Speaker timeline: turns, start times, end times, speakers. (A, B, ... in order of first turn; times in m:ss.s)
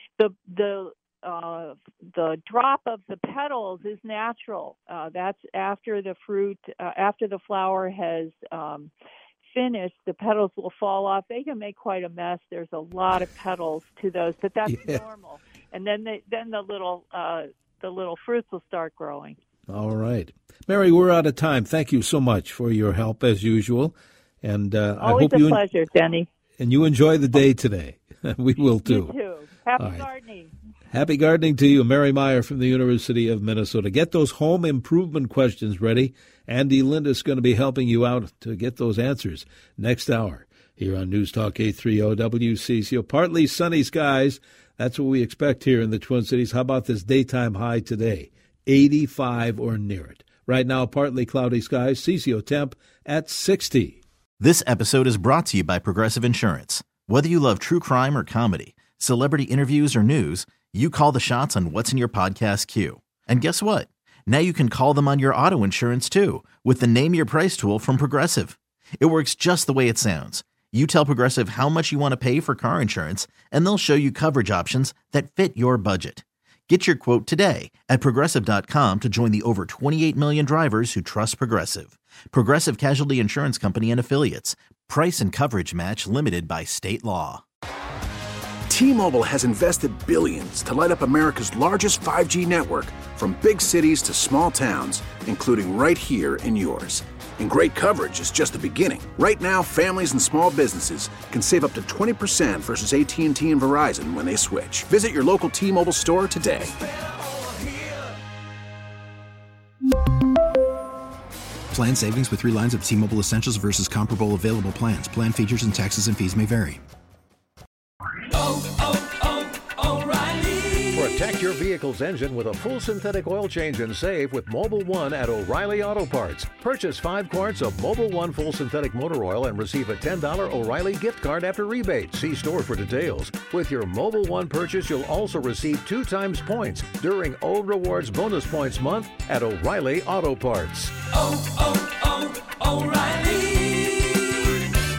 0:00.2-0:08.9 A
0:09.4-0:19.4 A
0:14.7-0:15.0 B
0:19.7-0:25.6 B
0:25.0-0:26.3 A
0:26.6-0:29.1 B
0:28.9-0:30.5 A
0:29.8-0:30.0 B
0:30.9-0:54.0 B
0:54.4-1:27.4 C
1:28.7-1:46.8 D
1:51.7-1:56.8 E
2:00.8-2:21.1 F
2:22.9-2:23.4 F